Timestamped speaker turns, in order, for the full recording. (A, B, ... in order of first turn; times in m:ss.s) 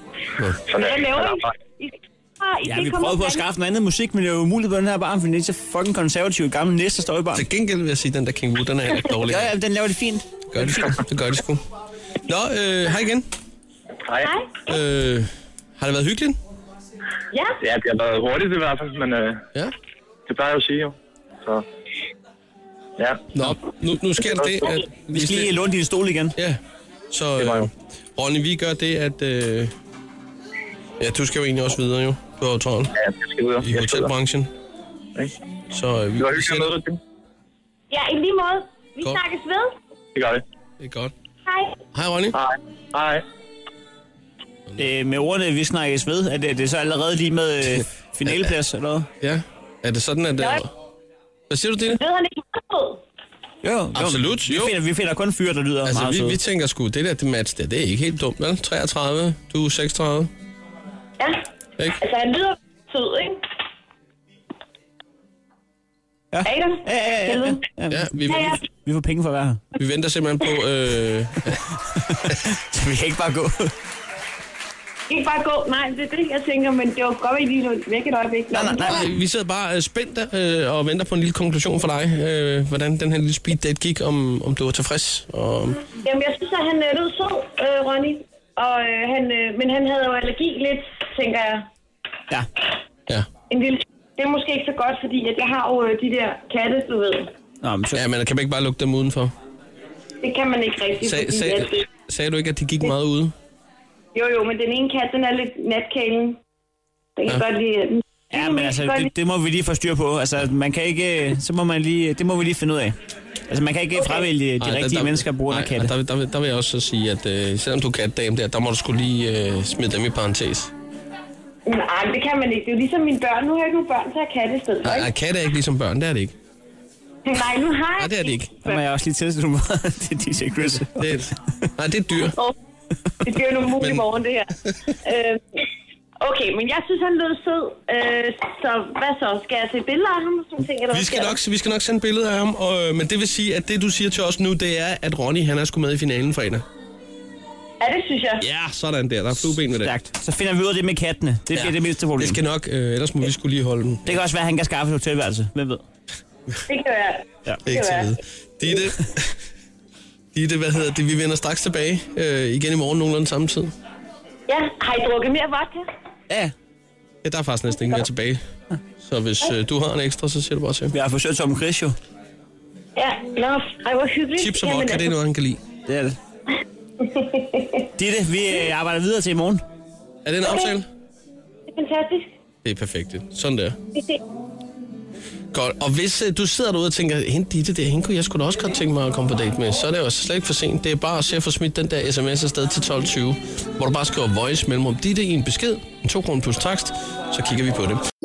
0:00.6-0:01.5 A
0:00.7-0:03.4 B
0:02.6-0:07.4 C
0:07.3-0:09.5 D
0:09.3-0:10.3 C
0:10.5-0:11.6 D
0:12.3-0:13.2 D
0:14.1-0:14.3 A
0:14.2-0:14.6 B
0:14.7-0:16.4 D
0:17.3-0:17.6 B
0:17.6-0:19.4 A
0:20.3-0:21.6 A
0:23.0-0:23.3 A
0:23.3-0:25.5 D
0:25.1-0:26.4 C
0:27.1-0:29.7 D
0:27.4-0:27.7 A
0:31.0-0:32.9 D
0:32.9-0:34.1 A
0:33.6-0:34.5 D
0:35.7-0:36.7 D
0:36.2-0:37.0 A
0:37.9-0:39.7 B
0:40.1-0:40.4 A
0:40.8-0:41.1 D
0:41.4-0:41.8 B
0:41.9-0:42.4 D
0:42.3-0:43.2 A
0:44.8-0:49.1 C
0:49.2-0:50.7 D
0:51.5-0:52.0 D
0:51.9-0:53.0 B
0:53.6-0:56.4 C
0:53.9-0:54.8 D
0:55.8-1:00.3 D
1:01.2-1:01.4 B
1:02.0-1:03.4 B
1:06.3-1:09.6 C
1:06.4-1:07.6 B
1:07.9-1:08.6 D
1:08.3-1:08.6 B
1:09.8-1:11.6 D
1:12.0-1:13.7 C
1:15.1-1:19.1 B
1:18.5-1:19.1 C
1:18.9-1:25.8 D
1:26.0-1:31.7 B
1:33.5-1:37.3 B
1:37.6-1:38.0 C
1:37.9-1:39.3 D
1:40.2-1:41.8 B
1:41.0-1:43.3 D
1:44.1-1:46.4 B
1:47.2-1:49.1 B
1:48.3-1:53.0 C
1:53.5-1:55.9 C
1:54.0-1:54.2 B
1:54.6-2:00.7 D
2:01.6-2:05.1 B
2:04.8-2:06.3 D
2:07.2-2:08.8 B
2:08.0-2:08.5 D
2:08.6-2:11.0 C
2:10.9-2:12.4 D
2:13.2-2:15.6 B
2:16.2-2:21.4 B
2:20.9-2:26.6 D
2:27.8-2:28.4 B
2:28.4-2:29.9 D
2:29.4-2:32.4 C
2:31.6-2:34.2 D
2:34.0-2:35.8 C
2:36.7-2:38.1 B
2:37.6-2:39.3 D
2:40.3-2:43.7 D
2:44.5-2:45.9 B
2:47.2-2:48.4 D
2:49.0-2:50.9 D
2:50.9-2:52.0 C
2:53.0-2:55.1 B
2:54.4-2:55.6 D
2:55.9-2:56.2 C
2:57.0-2:57.8 B
2:58.0-2:59.6 C
3:00.2-3:00.9 D
3:00.4-3:00.7 B
3:01.7-3:02.3 B
3:02.6-3:03.8 D
3:03.9-3:04.2 B
3:05.5-3:18.0 D